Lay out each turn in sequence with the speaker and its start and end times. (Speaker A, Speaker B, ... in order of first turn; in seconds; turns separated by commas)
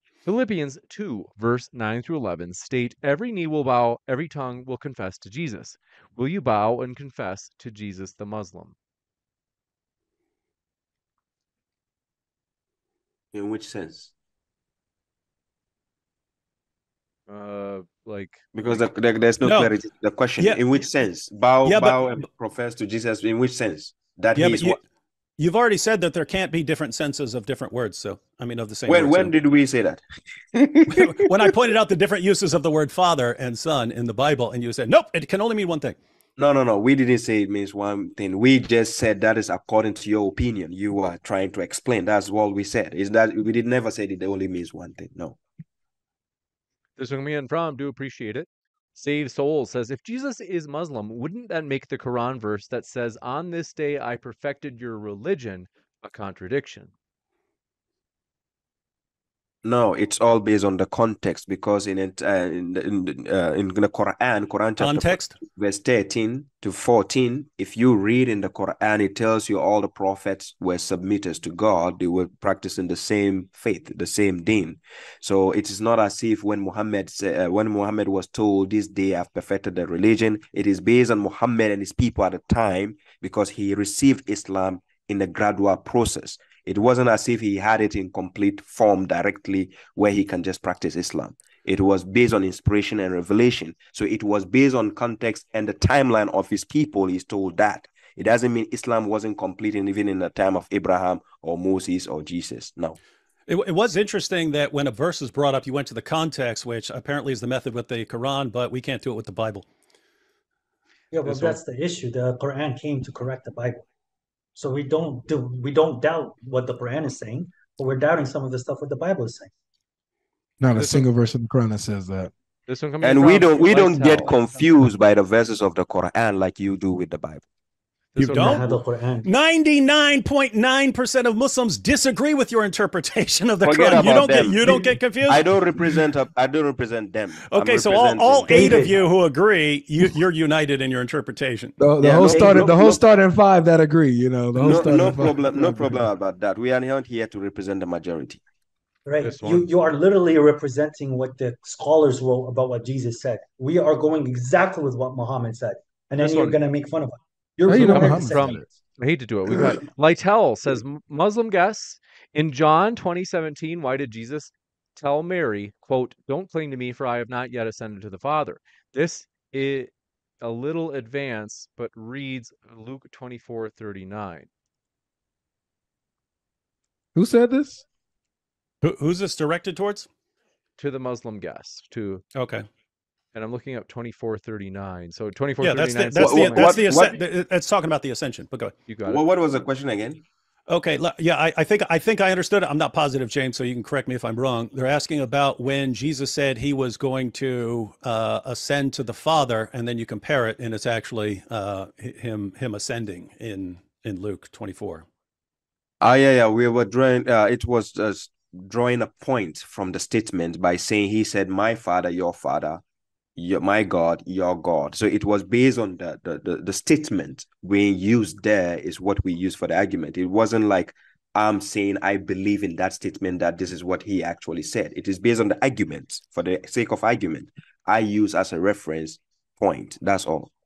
Speaker A: 0.2-8.8, Speaker B: 13.3-14.1, Speaker A: 17.3-18.8, Speaker B: 18.5-24.8, Speaker C: 19.4-19.7, Speaker C: 21.6-22.1, Speaker C: 24.4-24.8, Speaker C: 25.4-29.3, Speaker B: 28.9-30.0, Speaker B: 30.7-31.3, Speaker C: 30.8-36.0, Speaker B: 36.4-45.4, Speaker A: 47.0-56.9, Speaker B: 59.6-103.0, Speaker C: 64.8-65.4, Speaker C: 103.5-109.7, Speaker D: 111.1-113.8, Speaker A: 111.3-111.5, Speaker D: 114.6-119.5, Speaker E: 120.6-122.3, Speaker A: 120.7-121.1, Speaker A: 122.7-124.4, Speaker B: 123.0-127.4, Speaker C: 128.2-136.0, Speaker D: 128.2-129.3, Speaker B: 133.6-139.0, Speaker C: 137.5-141.8, Speaker D: 138.5-138.9, Speaker E: 141.8-146.1, Speaker B: 142.0-143.0, Speaker D: 142.3-142.7, Speaker B: 144.6-148.4, Speaker D: 149.1-158.6, Speaker A: 149.2-149.7, Speaker A: 156.2-156.6, Speaker E: 157.7-158.6, Speaker A: 157.7-174.5, Speaker E: 177.2-177.8, Speaker C: 178.8-180.1, Speaker A: 180.8-182.2, Speaker C: 182.3-182.7, Speaker A: 183.3-186.8, Speaker C: 185.6-188.7, Speaker B: 186.2-187.2, Speaker A: 188.9-189.2, Speaker B: 189.1-190.2, Speaker C: 190.7-205.1, Speaker B: 206.0-212.8, Speaker B: 213.4-230.5